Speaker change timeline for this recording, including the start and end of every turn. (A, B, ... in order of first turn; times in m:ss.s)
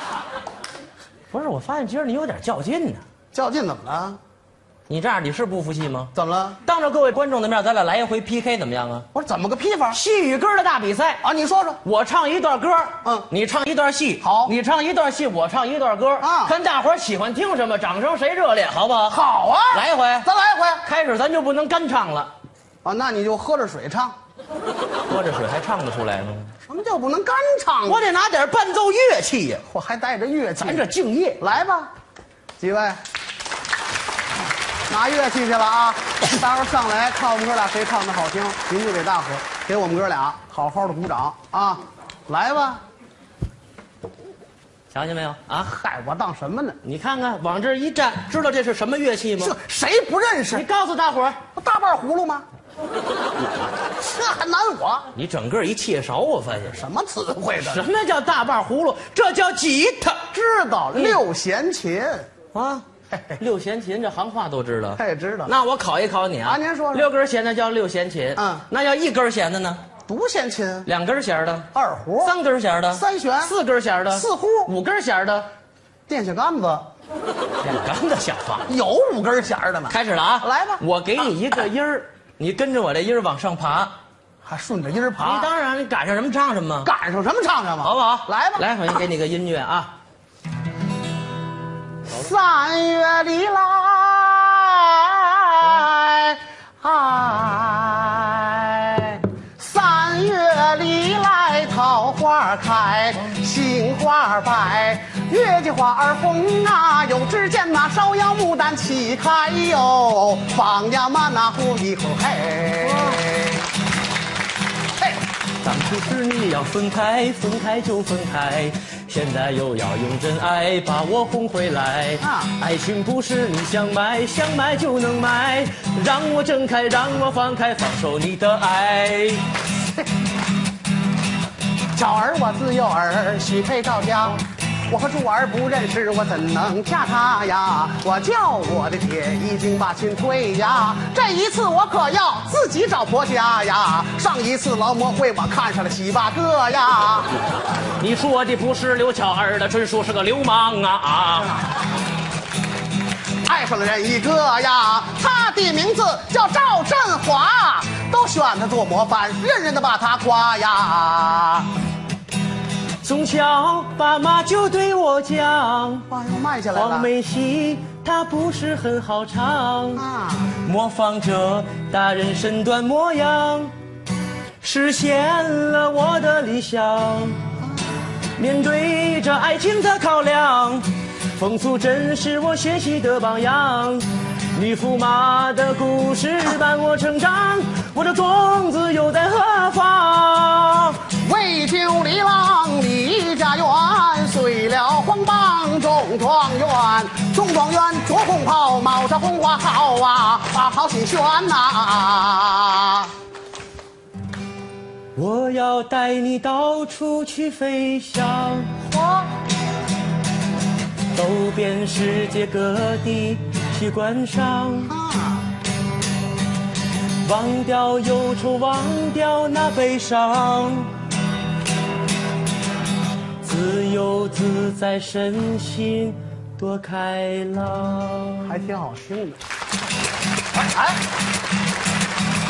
0:01.3-0:03.0 A
0:03.3-0:04.2 B
0:04.9-0:06.1 A
0:06.1-0:06.6 B
0:06.6-0:09.1 A
0:09.1-0:10.0 B
0:09.9-0:11.2 A
0:11.2-0:11.8 B
0:11.8-0:20.3 A
0:14.2-0:14.5 B
0:16.2-0:16.5 B
0:19.1-0:20.8 B
0:20.8-0:22.3 A
0:22.8-0:24.1 B
0:25.1-0:26.5 A
0:26.7-0:28.0 B
0:27.8-0:29.6 A
0:29.7-0:30.9 B
0:30.6-0:31.5 A
0:31.4-0:31.9 B
0:32.6-0:33.0 B
0:34.9-0:42.8 B
0:44.9-0:45.7 A
0:45.6-0:46.8 B
0:46.8-0:49.6 A
0:49.4-0:50.6 B
0:50.5-0:51.4 A
0:51.6-0:52.4 B
0:54.0-0:55.1 B
0:55.1-0:56.8 A
0:56.7-0:57.8 B
0:57.6-1:00.3 A
1:00.3-1:02.3 B
1:00.9-1:01.2 A
1:02.5-1:02.8 A
1:03.4-1:09.8 A
1:05.0-1:05.5 B
1:06.4-1:07.1 B
1:08.4-1:08.6 B
1:10.1-1:10.9 B
1:10.8-1:11.7 A
1:11.7-1:12.3 B
1:12.2-1:15.5 A
1:12.9-1:13.5 B
1:14.1-1:14.7 B
1:16.1-1:16.9 B
1:17.6-1:18.7 A
1:18.7-1:20.8 B
1:19.9-1:23.9 A
1:24.4-1:25.5 B
1:25.2-1:26.9 A
1:26.8-1:28.7 B
1:27.8-1:29.9 A
1:32.0-1:53.6 B
1:52.8-1:53.3 A
1:55.6-2:09.4 A
2:02.2-2:02.5 B
2:11.9-2:27.3 B
2:28.0-2:31.7 A
2:33.4-2:41.7 B
2:43.0-2:46.1 A
2:46.1-2:47.1 B
2:46.7-2:50.0 A
2:49.9-2:50.6 B
2:50.6-2:53.7 A
2:54.6-2:57.4 A
2:58.4-3:11.0 A
3:11.2-3:23.1 B
3:25.2-3:29.2 A
3:31.1-3:34.9 A
3:34.9-3:35.5 B
3:37.2-3:41.0 A
3:43.4-3:48.6 A
3:48.4-3:49.4 B
3:50.5-3:51.0 B